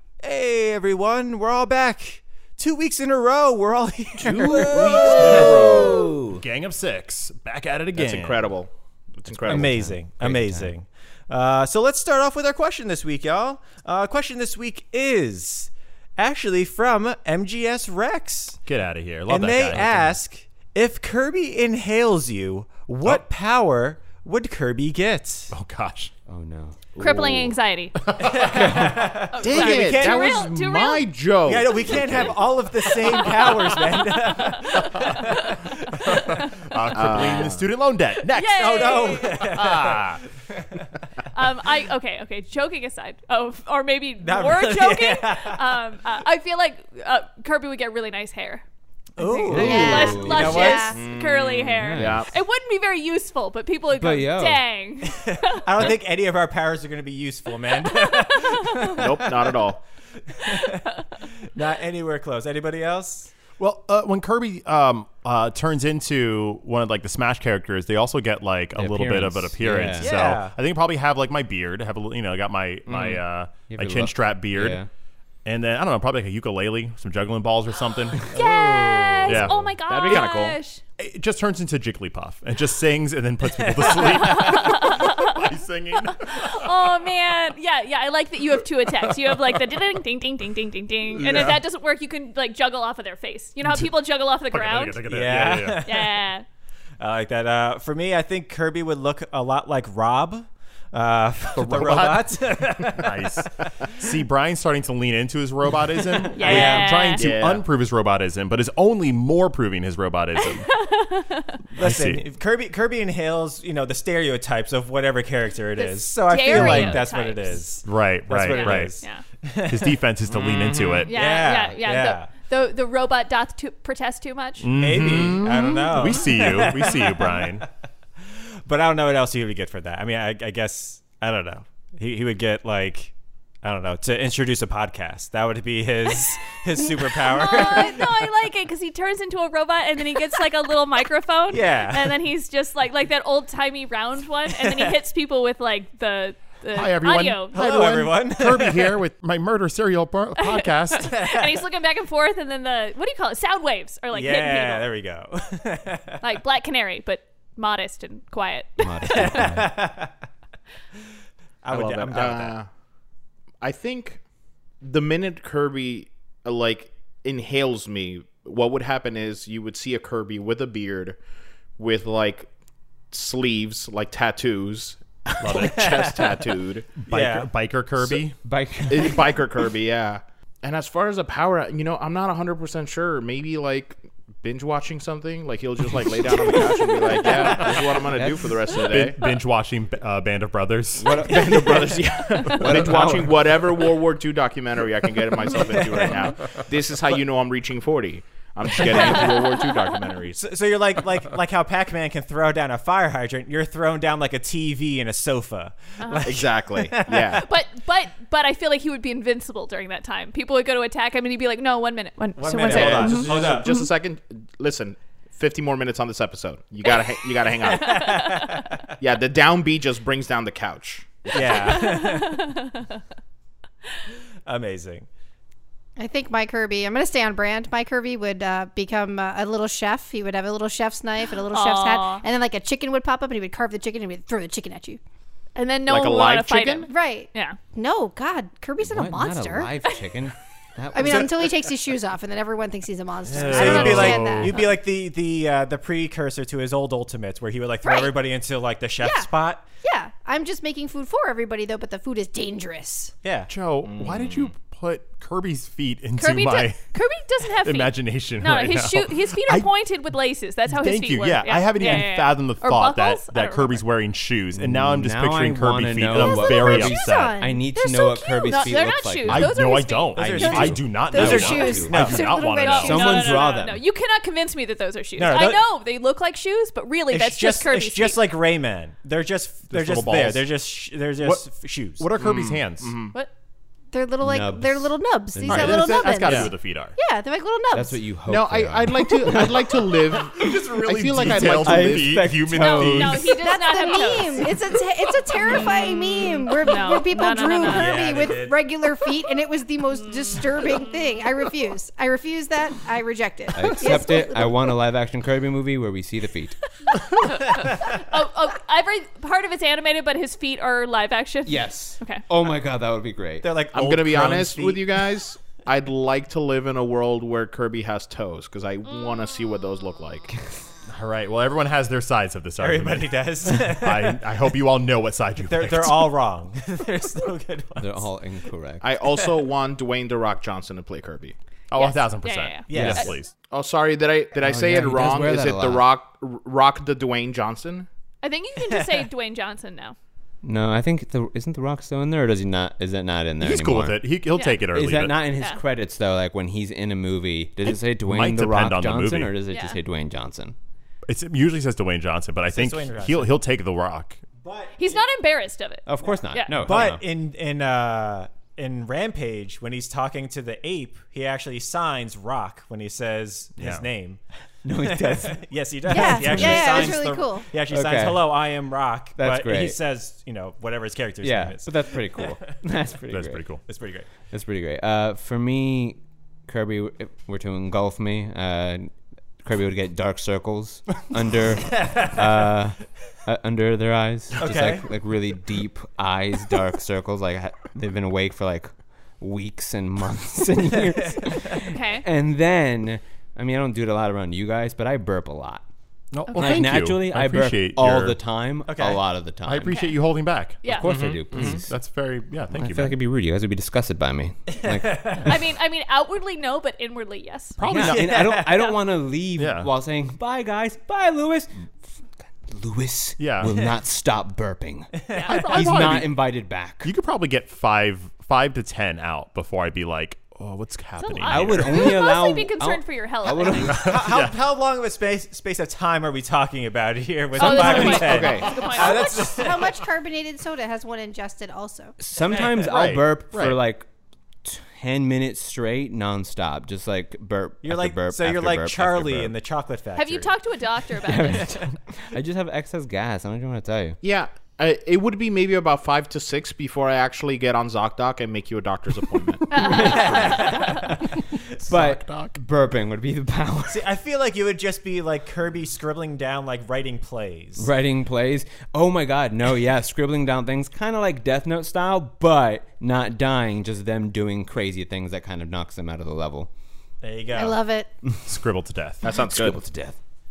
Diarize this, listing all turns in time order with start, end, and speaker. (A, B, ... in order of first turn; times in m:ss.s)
0:00.2-0:05.7 A
0:04.2-0:06.2 B
0:04.4-0:06.4 C
0:05.1-0:05.5 D
0:06.2-0:08.5 D
0:08.0-0:09.7 B
0:09.4-0:10.7 C
0:09.5-0:18.6 A
0:18.6-0:20.1 D
0:19.3-0:25.5 A
0:25.5-0:26.1 D
0:26.3-0:27.5 C
0:27.0-0:28.0 E
0:28.0-0:28.8 D
0:28.2-0:30.5 A
0:28.6-0:28.9 C
0:29.3-0:31.1 E
0:29.4-0:32.2 B
0:31.5-0:36.4 A
0:31.9-0:32.3 D
0:32.8-0:36.8 E
0:34.8-0:35.3 D
0:36.0-0:40.2 D
0:36.9-0:37.6 B
0:38.2-0:39.4 E
0:38.5-0:40.6 A
0:41.3-0:48.6 E
0:44.2-0:45.6 A
0:49.2-0:50.9 A
0:49.2-0:55.6 E
0:49.5-0:51.0 F
0:49.5-0:50.8 C
0:50.9-0:52.3 B
0:51.8-0:52.3 C
0:54.0-0:54.6 C
0:55.2-0:59.6 A
0:57.8-0:59.0 E
0:59.0-0:59.8 B
1:00.3-1:00.9 A
1:01.5-1:03.3 A
1:03.6-1:14.8 D
1:08.8-1:10.3 C
1:10.0-1:10.6 A
1:12.9-1:13.2 B
1:13.6-1:14.9 C
1:15.4-1:18.3 D
1:18.3-1:20.8 E
1:19.2-1:19.8 D
1:19.4-1:20.6 B
1:21.0-1:27.0 D
1:23.7-1:24.5 A
1:23.8-1:35.1 E
1:31.1-1:31.6 D
1:34.5-1:35.8 D
1:35.1-1:36.1 A
1:35.8-1:36.4 E
1:37.0-1:43.9 A
1:41.5-1:50.7 D
1:46.3-1:47.3 E
1:46.3-1:47.2 A
1:47.2-1:47.7 B
1:50.4-1:51.5 E
1:51.8-1:52.2 D
1:51.8-2:00.0 A
1:55.8-1:57.6 E
1:56.5-1:57.0 D
1:57.8-1:58.9 D
1:58.5-1:59.2 E
1:59.7-2:01.1 D
2:00.3-2:01.1 B
2:01.1-2:04.7 E
2:01.1-2:02.3 A
2:04.6-2:07.7 D
2:04.8-2:07.5 A
2:08.7-2:18.1 A
2:17.2-2:27.6 E
2:21.5-2:22.2 A
2:24.6-2:24.9 A
2:26.7-2:31.1 D
2:27.5-2:29.0 A
2:30.4-2:34.9 E
2:31.2-2:31.6 A
2:34.1-2:36.2 A
2:36.2-2:39.5 E
2:38.8-2:39.7 C
2:39.1-2:40.1 A
2:41.6-2:42.6 A
2:41.7-2:42.7 B
2:43.6-2:44.2 B
2:44.8-2:51.2 B
2:51.8-2:52.5 B
2:53.1-2:57.0 B
2:55.4-2:56.1 D
2:55.5-2:56.5 A
2:57.0-2:58.4 D
2:57.1-2:57.5 A
2:58.4-2:59.4 C
2:58.9-3:09.2 B
3:08.1-3:08.6 C
3:08.8-3:11.4 D
3:11.0-3:13.8 C
3:11.3-3:20.4 B
3:18.8-3:19.2 A
3:20.4-3:27.4 A
3:26.0-3:26.3 E
3:26.2-3:27.5 B
3:27.2-3:33.8 E
3:32.4-3:33.7 A
3:32.7-3:38.1 B
3:32.7-3:33.6 D
3:37.8-3:38.8 A
3:37.9-3:38.4 E
3:39.0-3:41.8 B
3:41.3-3:42.4 A
3:41.4-3:43.0 E
3:44.4-3:45.1 A
3:46.0-3:55.0 F
3:51.5-3:52.2 E
3:55.6-3:57.6 E
3:55.8-3:56.9 B
3:56.9-3:59.7 F
3:58.8-4:01.5 C
4:00.9-4:04.7 F
4:03.3-4:04.5 D
4:03.4-4:09.6 A
4:07.8-4:08.1 F
4:09.0-4:09.3 F
4:09.8-4:13.1 F
4:13.2-4:13.5 A
4:13.5-4:16.9 D
4:13.8-4:14.5 B
4:16.2-4:23.8 E
4:17.4-4:19.7 D
4:20.7-4:27.4 D
4:24.6-4:29.5 C
4:26.1-4:29.0 F
4:28.5-4:30.2 E
4:29.2-4:33.4 D
4:30.2-4:32.2 A
4:30.3-4:33.4 F
4:30.6-4:32.3 C
4:32.6-4:38.2 E
4:32.8-4:33.8 C
4:35.2-4:35.6 A
4:37.1-4:42.0 A
4:39.7-4:40.4 D
4:41.2-4:41.5 D
4:42.0-4:43.1 D
4:42.2-4:43.1 B
4:43.9-4:48.0 F
4:44.2-4:46.5 C
4:45.4-4:47.0 D
4:47.7-4:50.2 C
4:48.3-4:52.2 B
4:50.2-4:53.4 D
4:51.2-4:53.4 C
4:52.5-4:54.5 E
4:53.4-5:04.7 F
4:55.5-4:58.0 E
4:57.6-4:58.6 A
5:03.5-5:06.6 C
5:07.2-5:12.2 E
5:11.5-5:13.5 C
5:13.4-5:15.0 A
5:13.7-5:20.4 B
5:20.9-5:26.1 D
5:22.6-5:24.3 A
5:25.4-5:28.0 A
5:27.8-5:28.9 C
5:28.8-5:31.4 B
5:31.7-5:33.3 D
5:31.8-5:33.1 E
5:32.7-5:33.2 A
5:32.7-5:33.1 C
5:33.5-5:37.9 B
5:34.4-5:35.9 C
5:38.2-5:40.0 E
5:38.8-5:39.0 A
5:40.4-5:44.0 C
5:43.4-5:45.2 D
5:44.3-5:44.6 E
5:44.7-5:50.5 C
5:47.7-5:49.3 D
5:49.5-5:49.8 E
5:51.1-5:54.2 D
5:52.5-5:53.3 A
5:54.4-5:55.0 A
5:54.8-5:56.5 E
5:55.9-5:57.0 C
5:56.6-6:04.2 A
6:03.6-6:03.8 D
6:04.6-6:07.0 C
6:04.8-6:12.4 A
6:05.9-6:07.5 F
6:07.7-6:08.3 C
6:09.2-6:09.8 C
6:11.2-6:13.4 C
6:13.1-6:13.6 D
6:13.7-6:14.0 A
6:14.3-6:18.9 C
6:19.4-6:28.7 C
6:21.6-6:22.5 A
6:24.4-6:24.9 A
6:29.2-6:35.6 C
6:31.6-6:32.0 E
6:36.1-6:38.2 D
6:36.3-6:36.6 E
6:36.4-6:39.7 C
6:38.7-6:39.0 A
6:39.4-6:43.0 D
6:39.6-6:40.0 E
6:40.6-6:40.9 E
6:40.7-6:41.7 C
6:40.8-6:41.6 B
6:42.5-6:45.4 C
6:44.6-6:45.2 A
6:45.2-6:47.6 E
6:47.6-6:48.2 D
6:47.6-6:51.6 C
6:47.8-6:48.6 A
6:49.4-6:49.7 D
6:52.5-6:56.9 C
6:53.2-6:53.6 D
6:55.1-6:56.0 E
6:55.2-6:55.5 A
6:55.4-6:56.3 D
6:56.8-7:02.0 D
7:01.0-7:03.7 E
7:01.2-7:03.9 C
7:03.6-7:04.4 D
7:03.8-7:09.8 A
7:07.4-7:09.4 E
7:07.4-7:08.7 B
7:07.5-7:09.0 D
7:08.8-7:12.0 F
7:12.0-7:13.8 C
7:12.3-7:13.6 D
7:14.4-7:19.3 C
7:17.6-7:20.3 A
7:20.0-7:21.5 E
7:21.0-7:24.0 C
7:24.0-7:30.4 B
7:29.5-7:30.9 E
7:29.5-7:31.0 C
7:30.1-7:30.4 A
7:31.6-7:33.8 C
7:31.8-7:32.4 D
7:33.7-7:37.7 A
7:37.6-7:46.5 C
7:47.0-7:47.6 A
7:47.3-7:47.9 F
7:48.2-7:49.0 D
7:49.0-7:49.6 B
7:49.1-7:50.0 C